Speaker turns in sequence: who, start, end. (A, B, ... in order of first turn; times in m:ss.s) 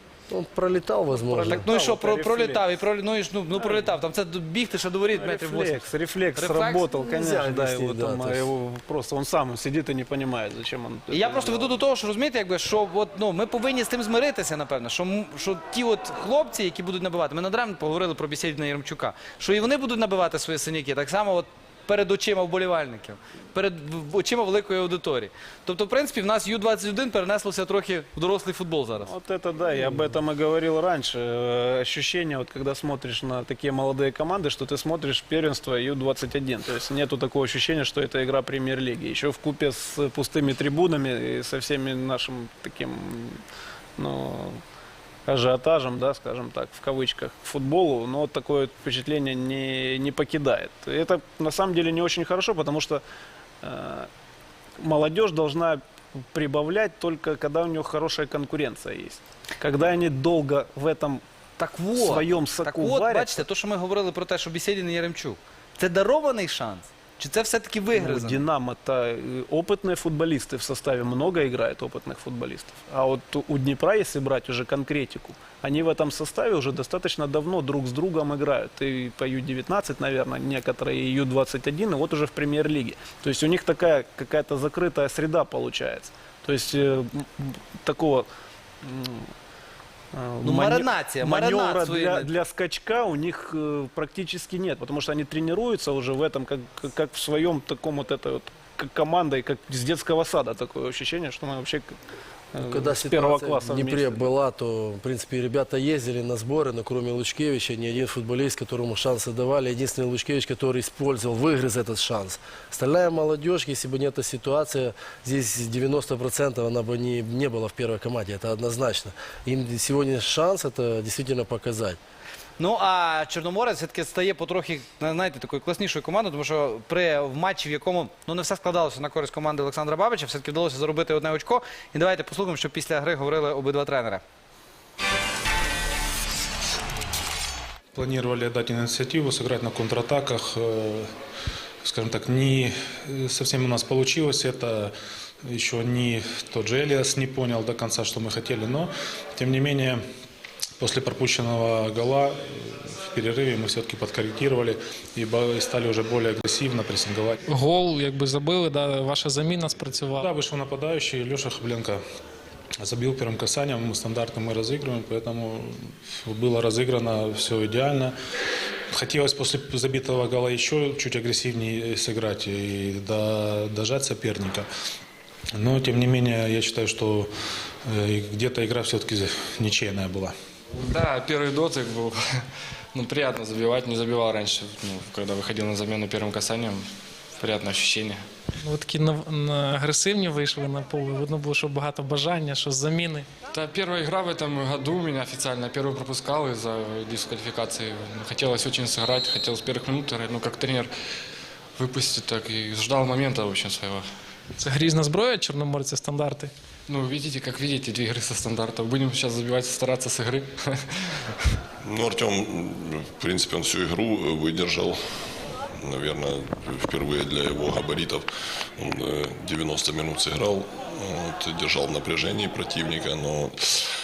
0:00.3-0:01.6 A
0:01.3-0:05.8 B
0:01.5-0:02.7 C
0:05.1-0:11.8 C
0:06.4-0:06.8 B
0:06.9-0:08.5 A
0:11.1-0:29.1 B
0:29.0-0:43.4 C
0:44.0-0:44.6 C
0:45.2-0:53.0 C
0:53.6-0:54.1 C
0:54.8-1:01.2 C
1:01.6-1:08.4 B
1:01.9-1:03.4 C
1:07.9-1:28.3 C
1:28.8-1:29.3 C
1:30.1-1:42.0 C
1:30.4-1:32.3 B
1:42.5-1:44.2 C
1:42.6-2:02.0 A
2:02.6-2:14.2 B
2:17.9-2:21.1 D
2:21.8-2:24.9 D
2:25.4-2:30.0 D
2:30.8-2:37.4 D
2:37.5-2:40.2 E
2:40.2-2:42.0 D
2:42.8-2:48.1 D
2:48.9-2:54.6 D
2:55.6-2:57.3 D
2:57.9-3:00.3 D
3:00.7-3:02.2 F
3:02.9-3:06.8 F
3:07.4-3:08.2 F
3:08.6-3:13.3 E
3:13.5-3:20.9 F
3:21.8-3:24.0 F
3:24.6-3:26.5 E
3:26.9-3:30.8 F
3:31.8-3:34.9 G
3:35.8-3:38.2 G
3:38.8-3:43.8 G